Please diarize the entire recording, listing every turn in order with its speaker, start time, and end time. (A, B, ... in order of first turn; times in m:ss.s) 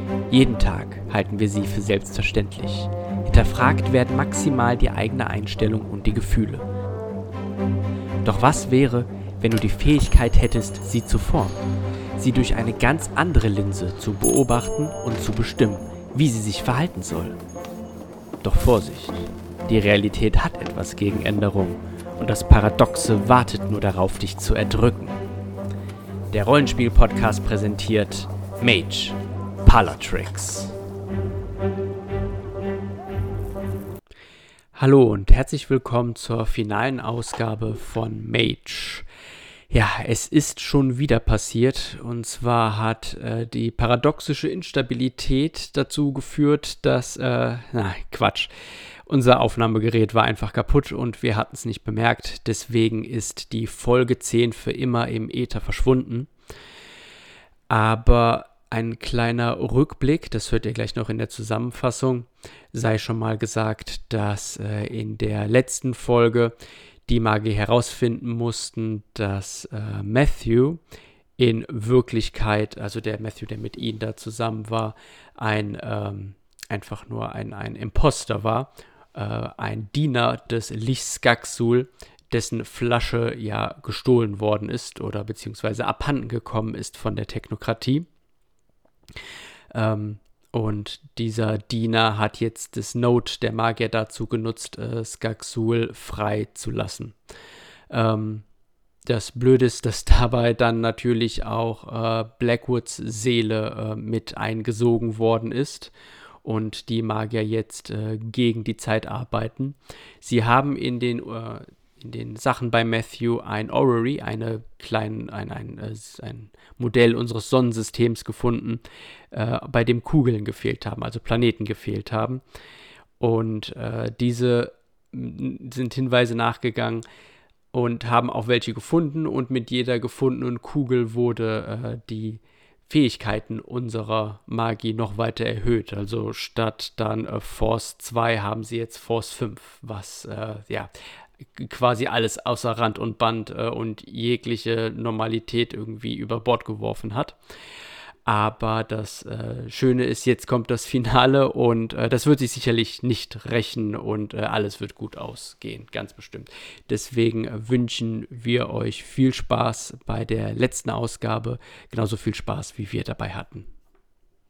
0:00.3-0:06.7 A
0:08.2-0:11.6 A
0:12.2-0:17.4 A
0:18.4-0:25.2 A
0:26.3-0:30.7 A
0:34.8-0:39.1 A
0:39.7-0:48.5 A
0:49.1-0:56.3 A
0:57.7-1:06.6 A
1:07.1-1:10.8 A
1:11.4-1:28.1 A
1:29.7-1:37.2 A
1:37.9-1:38.4 A
1:39.1-1:45.9 A
1:46.4-2:02.4 A
2:03.2-2:07.0 A
2:07.7-2:20.9 A
2:21.6-2:27.4 A
2:28.3-2:43.7 A